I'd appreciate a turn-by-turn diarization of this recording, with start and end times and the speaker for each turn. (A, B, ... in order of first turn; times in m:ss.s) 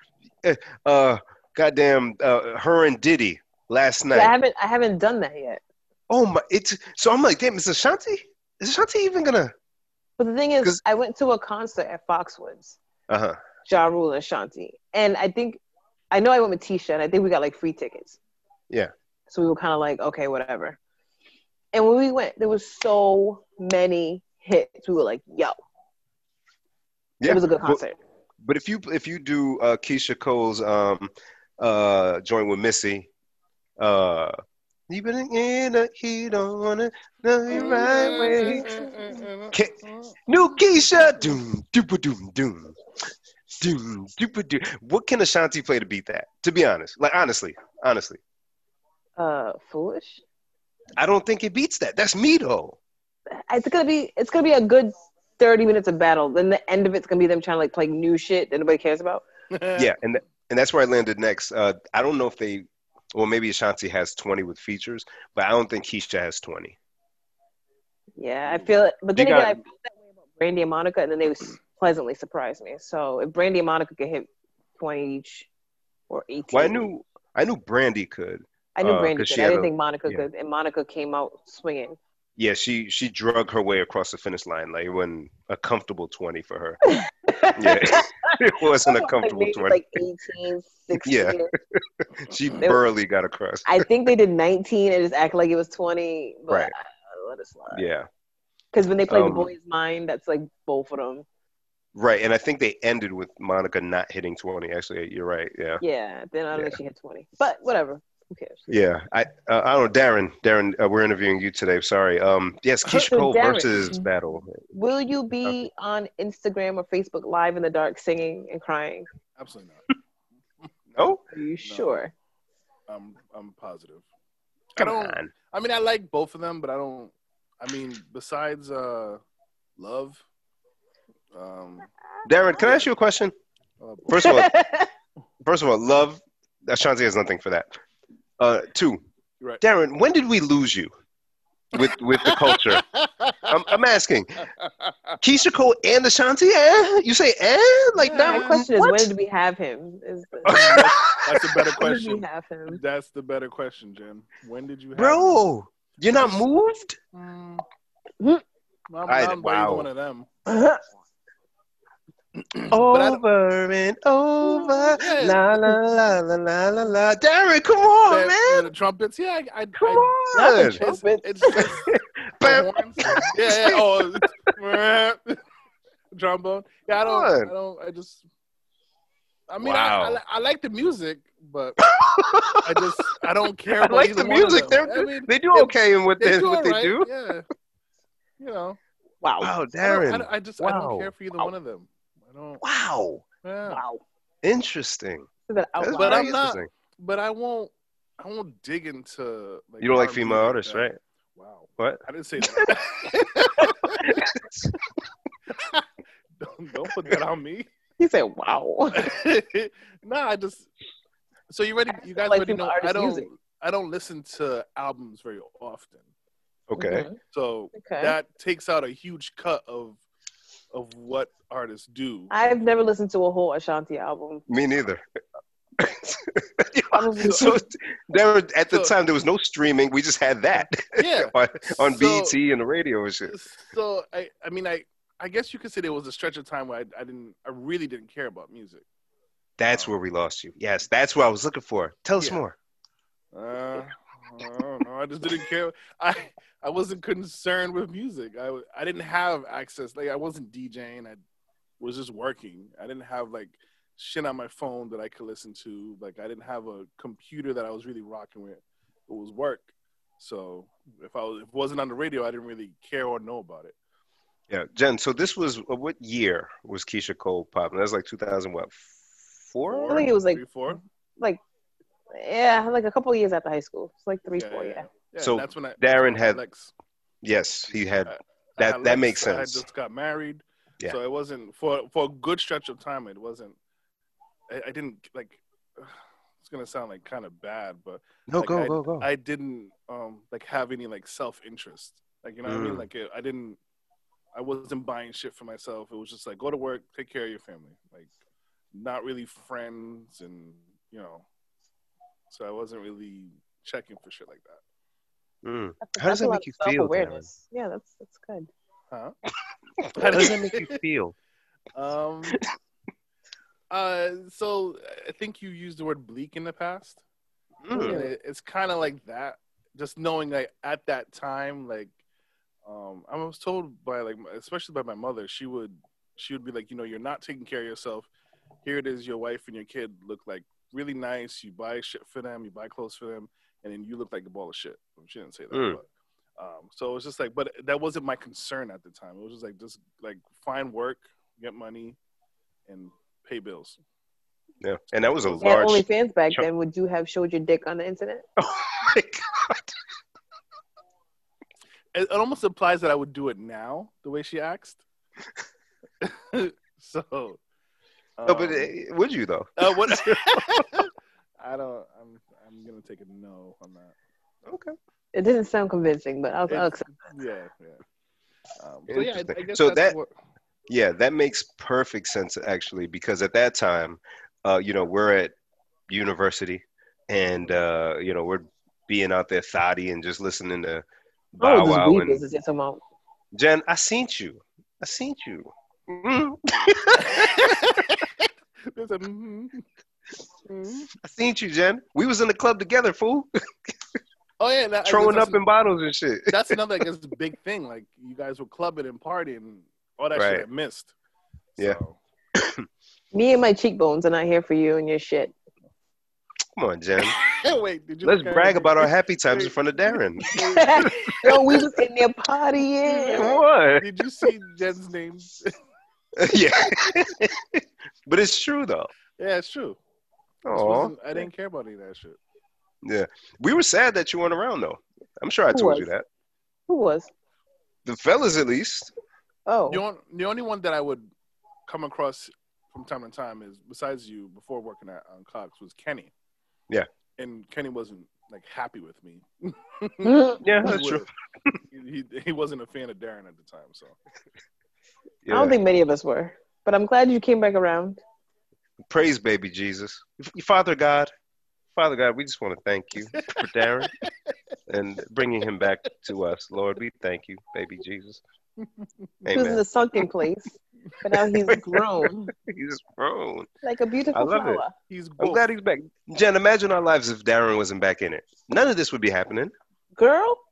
0:00.4-0:04.3 A
0:04.1-0:05.6 B
0:06.1-0:09.5 A
0:10.2-0:12.8 B
0:13.1-0:13.4 A
0:13.6-0:18.2 B
0:19.3-0:20.8 B
0:21.7-0:25.5 B
0:27.2-0:27.8 A
0:27.2-0:28.0 B
0:28.4-0:33.1 A
0:33.8-0:34.3 A
0:34.9-0:38.8 A
0:37.5-0:40.2 C
0:40.2-0:42.8 A
0:43.6-0:48.2 A
0:49.2-0:50.2 B
0:51.0-0:52.8 A
0:53.3-0:59.2 B
0:59.5-0:59.9 C
0:59.8-1:06.8 A
1:08.2-1:15.5 B
1:08.5-1:08.7 C
1:09.2-1:09.6 A
1:16.1-1:16.9 B
1:16.5-1:20.2 A
1:18.8-1:22.0 B
1:22.4-1:26.8 A
1:26.8-1:31.5 B
1:27.5-1:29.8 A
1:31.0-1:31.4 A
1:32.2-1:33.8 A
1:33.6-1:37.8 B
1:37.7-1:38.1 A
1:38.7-1:41.2 B
1:39.1-1:39.5 A
1:41.9-1:45.8 A
1:45.8-1:48.7 B
1:48.7-1:54.6 A
1:52.8-1:54.1 B
1:54.6-1:59.1 B
1:59.4-1:59.9 C
2:00.9-2:02.0 C
2:01.3-2:02.1 B
2:02.9-2:04.0 C
2:04.8-2:09.2 C
2:04.8-2:05.3 A
2:09.8-2:10.2 C
2:11.3-2:11.9 C
2:12.2-2:13.3 A
2:12.5-2:12.9 C
2:13.8-2:14.4 C
2:14.1-2:14.5 A
2:14.1-2:14.9 B
2:15.4-2:17.8 A
2:18.4-2:19.0 A
2:19.6-2:20.9 A
2:21.7-2:22.8 A
2:22.2-2:23.5 C
2:23.5-2:24.4 A
2:24.4-2:25.2 C
2:25.2-2:29.1 A
2:28.0-2:28.5 C
2:28.1-2:30.8 B
2:30.4-2:35.5 C
2:30.4-2:31.3 A
2:31.6-2:32.8 B
2:34.9-2:37.0 A
2:36.1-2:36.4 C
2:37.1-2:37.6 C
2:38.9-2:40.3 C
2:39.1-2:39.9 A
2:40.4-2:40.8 B
2:42.4-2:43.2 C
2:42.7-2:48.7 A
2:44.8-2:45.5 C
2:45.2-2:45.8 B
2:48.1-2:50.2 C
2:49.8-2:50.8 A
2:50.3-2:51.7 B
2:50.7-2:51.8 C
2:51.5-2:54.2 A
2:52.4-2:55.4 C
2:56.1-2:58.2 C
2:57.0-2:57.5 A
2:59.5-3:01.8 C
2:59.6-3:00.2 A
3:01.8-3:02.9 A
3:02.6-3:07.4 C
3:03.8-3:07.1 A
3:08.4-3:08.8 C
3:09.2-3:09.5 B
3:09.4-3:11.1 A
3:09.8-3:12.6 C
3:12.6-3:13.2 A
3:13.4-3:13.8 C
3:13.7-3:14.0 B
3:14.4-3:15.3 A
3:15.5-3:16.3 B
3:15.8-3:16.7 A
3:16.0-3:24.1 C
3:19.8-3:21.0 A
3:21.8-3:22.8 A
3:23.6-3:24.7 A
3:25.5-3:25.9 C
3:26.4-3:27.7 C
3:28.0-3:29.1 B
3:28.9-3:30.7 C
3:31.5-3:36.0 C
3:32.1-3:33.3 B
3:36.7-3:37.0 A
3:36.8-3:37.2 B
3:37.3-3:40.0 C
3:37.7-3:38.1 B
3:40.7-3:42.3 C
3:42.3-3:44.4 B
3:44.5-3:45.0 A
3:45.8-3:53.3 A
3:46.9-3:47.5 B
3:50.9-3:52.4 C
3:53.3-3:58.8 C
3:59.6-4:02.5 A
4:03.3-4:11.2 C
4:11.8-4:23.8 C
4:24.5-4:30.0 A
4:29.7-4:30.8 C
4:29.9-4:30.4 B
4:32.1-4:34.8 B
4:34.4-4:36.7 C
4:35.2-4:36.4 A
4:37.2-4:39.6 A
4:38.1-4:43.6 C
4:44.5-4:53.6 C
4:48.3-4:49.0 A
4:52.4-4:52.8 A
4:54.3-4:58.1 C
4:58.7-5:01.2 C
5:02.3-5:04.6 C
5:05.4-5:07.2 A
5:05.8-5:08.5 B
5:09.8-5:11.1 A
5:09.9-5:10.8 C
5:11.7-5:12.4 C
5:13.7-5:17.0 C
5:17.6-5:18.0 A
5:17.8-5:18.1 B
5:17.8-5:21.9 C
5:22.6-5:28.1 C
5:28.6-5:35.8 C
5:35.5-5:35.8 A
5:36.4-5:42.0 C
5:42.7-5:43.8 C
5:44.6-5:46.5 A
5:45.2-5:45.5 C
5:45.4-5:48.2 B
5:48.4-5:49.7 A
5:51.9-5:54.8 C
5:56.0-5:57.4 C
5:58.2-5:58.7 C
5:58.3-6:00.7 A
5:59.6-6:04.0 C
6:04.4-6:04.7 A
6:05.1-6:06.9 B
6:06.5-6:07.8 C
6:08.6-6:10.1 C
6:08.9-6:09.9 A
6:10.7-6:15.3 A
6:15.9-6:22.2 A
6:21.4-6:22.8 B
6:23.4-6:27.5 A
6:27.0-6:29.6 C
6:30.5-6:30.8 C
6:31.0-6:33.7 A
6:34.4-6:35.5 C
6:34.8-6:36.6 A
6:36.3-6:40.9 C
6:40.1-6:40.4 A
6:41.5-6:42.0 C
6:42.3-6:42.6 A
6:43.1-6:45.3 B
6:46.6-6:47.2 A
6:47.2-6:51.4 C
6:48.0-6:51.6 A
6:50.5-6:53.3 B
6:52.9-6:55.5 C
6:53.1-6:53.8 A
6:56.2-6:58.9 A
6:59.2-6:59.8 C
7:00.4-7:00.9 A
7:00.5-7:02.2 C
7:02.8-7:06.0 A
7:05.5-7:05.9 B
7:06.7-7:07.1 B
7:07.8-7:08.9 A
7:09.5-7:09.8 B
7:09.7-7:11.1 C
7:11.6-7:16.1 C
7:17.2-7:21.1 C
7:20.0-7:20.5 B
7:20.4-7:21.5 A
7:21.7-7:24.0 C
7:25.2-7:25.6 A
7:25.3-7:28.0 B
7:28.9-7:31.1 A
7:31.7-7:33.9 A
7:34.7-7:38.2 A
7:38.6-7:38.8 C
7:39.2-7:39.6 A
7:39.3-7:42.3 B
7:41.5-7:43.5 A
7:43.6-7:44.7 B
7:44.1-7:44.6 A
7:44.9-7:45.4 C
7:45.2-7:49.5 A
7:50.0-7:50.4 B